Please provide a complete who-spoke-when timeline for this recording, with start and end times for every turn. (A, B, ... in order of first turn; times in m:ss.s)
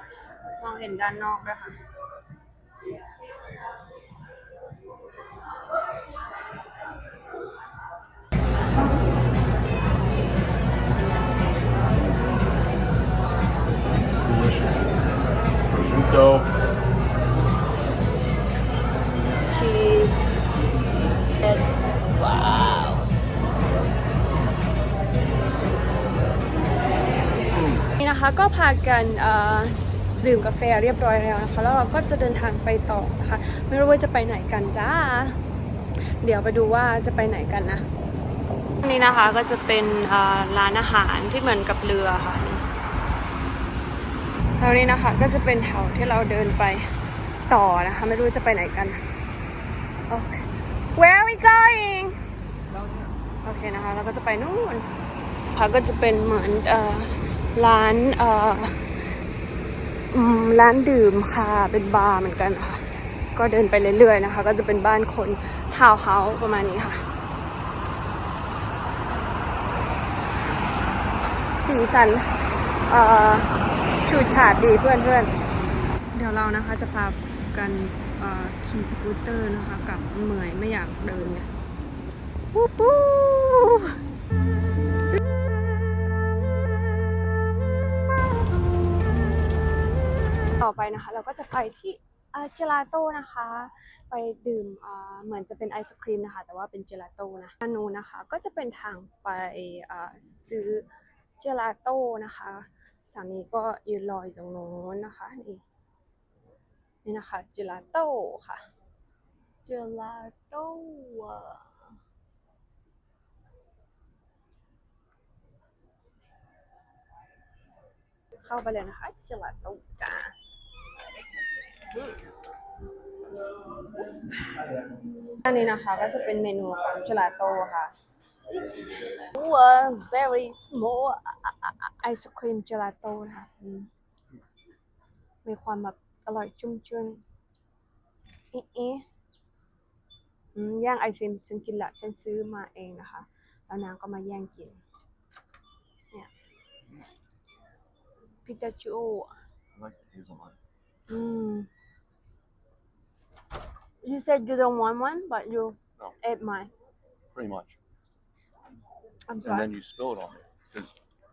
0:00.6-0:01.8 A
0:15.7-0:16.5 B
0:19.5-0:20.4 A
0:21.4-0:23.1 A
0:27.6-0:27.8 B
0:28.0-0:35.4 A
0:36.2-0:37.8 A
0:38.8-0:42.6 A
0:44.6-0:46.9 A
0:47.5-0:49.0 A
0:50.1-0:52.2 A
0:53.4-0:54.9 A
0:55.5-0:58.8 A
1:00.1-1:02.8 A
1:03.3-1:07.0 A
1:11.6-1:12.3 A
1:12.9-1:15.3 A
1:16.1-1:21.5 A
1:22.5-1:24.0 A
1:30.6-1:40.9 A
1:41.4-1:45.6 A
1:47.0-1:48.6 A
1:49.6-1:52.0 A
1:58.4-2:00.3 A
2:01.9-2:02.2 A
2:04.9-2:07.9 A
2:08.5-2:13.9 A
2:15.4-2:17.2 A
2:18.5-2:19.0 A
2:20.6-2:24.8 A
2:28.4-2:29.3 A
2:29.8-2:30.6 B
2:31.1-2:31.7 A
2:34.0-2:36.7 A
2:37.3-2:37.8 B
2:39.3-2:39.7 A
2:39.4-2:41.0 B